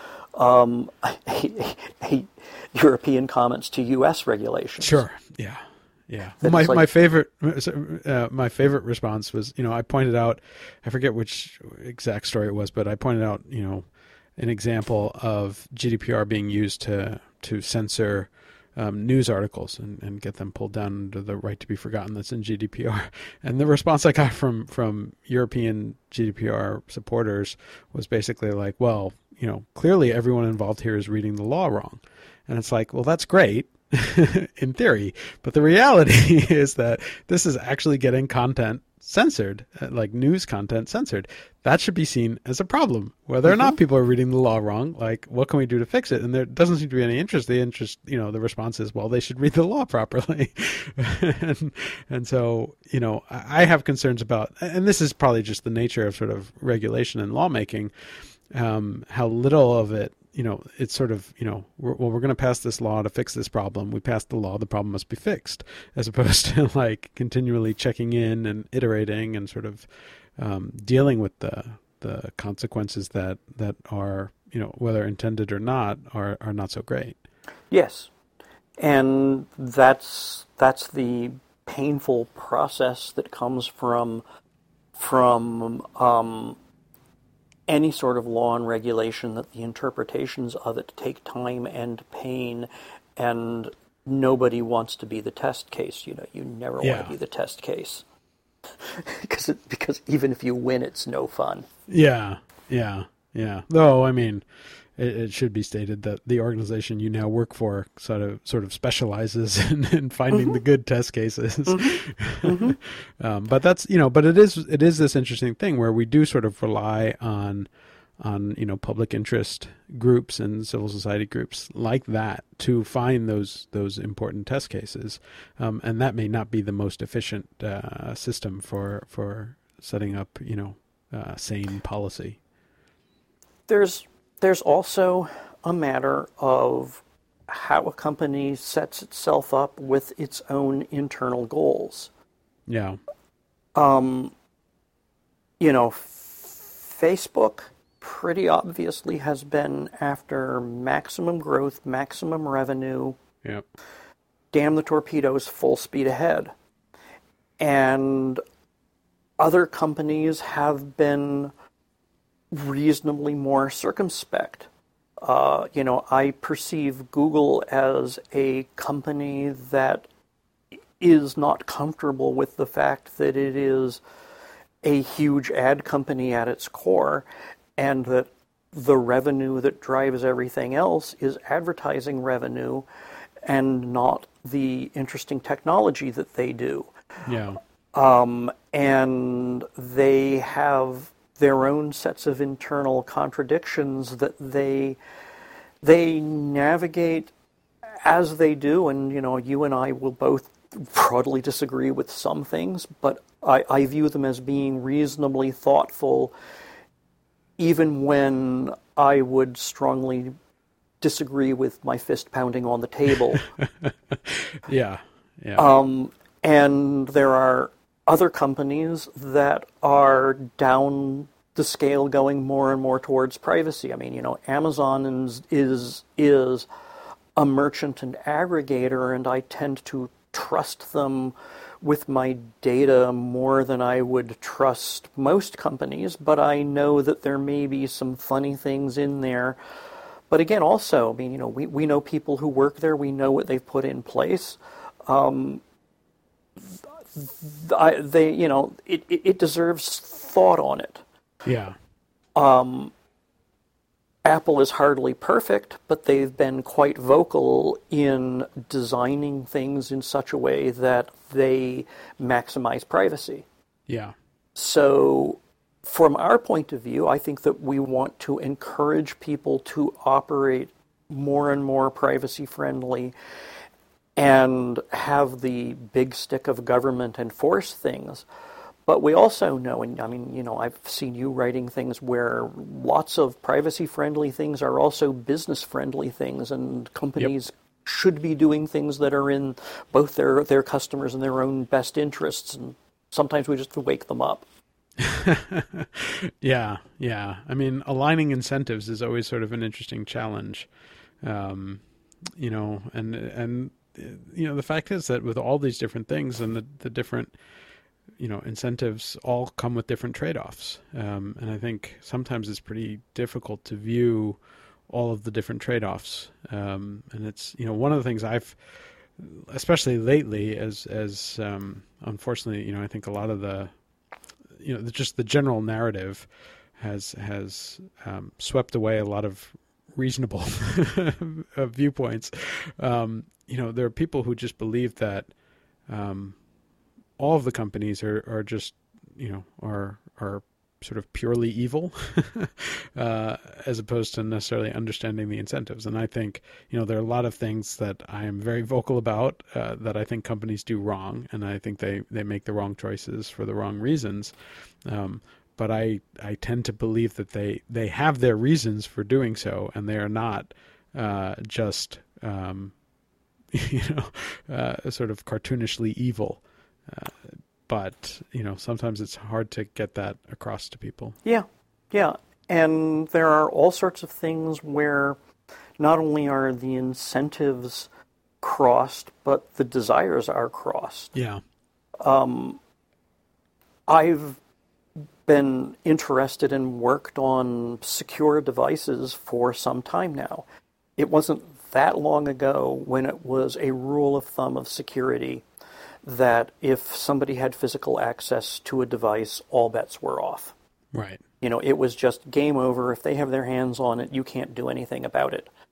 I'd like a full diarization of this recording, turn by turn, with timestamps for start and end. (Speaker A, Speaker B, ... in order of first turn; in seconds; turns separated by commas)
Speaker A: 0.3-5.0, Speaker B: 4.8-77.2, Speaker A: 6.4-6.9, Speaker A: 43.5-43.8, Speaker A: 77.7-78.1, Speaker A: 78.8-84.2, Speaker A: 85.0-86.6, Speaker A: 87.7-98.0, Speaker B: 96.8-97.2, Speaker A: 98.7-101.7, Speaker B: 101.9-132.4, Speaker A: 111.7-112.8, Speaker A: 133.7-142.1, Speaker B: 142.7-143.0, Speaker A: 143.8-144.3, Speaker A: 145.6-153.2, Speaker A: 154.5-156.5, Speaker A: 157.6-158.4, Speaker A: 159.4-161.5, Speaker A: 162.5-164.7, Speaker A: 165.2-170.1, Speaker A: 171.0-174.0, Speaker A: 174.8-182.9, Speaker A: 183.4-186.9, Speaker B: 187.3-187.6, Speaker A: 187.9-195.0, Speaker A: 195.8-197.3, Speaker A: 197.9-206.3, Speaker A: 207.6-210.3, Speaker A: 211.0-213.5, Speaker B: 213.6-215.7, Speaker A: 215.6-226.7, Speaker A: 227.4-239.6, Speaker A: 240.3-245.6, Speaker A: 246.6-251.0, Speaker B: 251.4-251.8, Speaker A: 252.4-252.9, Speaker A: 254.2-263.5, Speaker B: 263.9-264.1, Speaker A: 264.6-273.1, Speaker A: 274.2-278.3, Speaker A: 278.9-294.5, Speaker B: 295.0-300.7, Speaker B: 301.2-301.9, Speaker B: 302.4-307.4, Speaker B: 308.2-314.4, Speaker B: 314.9-323.7, Speaker B: 324.6-335.3, Speaker B: 335.9-336.4, Speaker B: 337.2-354.3, Speaker B: 354.9-362.8, Speaker B: 363.5-371.2, Speaker A: 371.2-375.2, Speaker A: 375.8-377.9, Speaker A: 378.4-381.1, Speaker B: 381.1-381.4, Speaker A: 382.0-382.6, Speaker A: 383.9-384.4, Speaker A: 385.3-390.5, Speaker A: 391.0-395.5, Speaker A: 396.0-400.6, Speaker B: 400.9-401.2, Speaker A: 401.4-405.5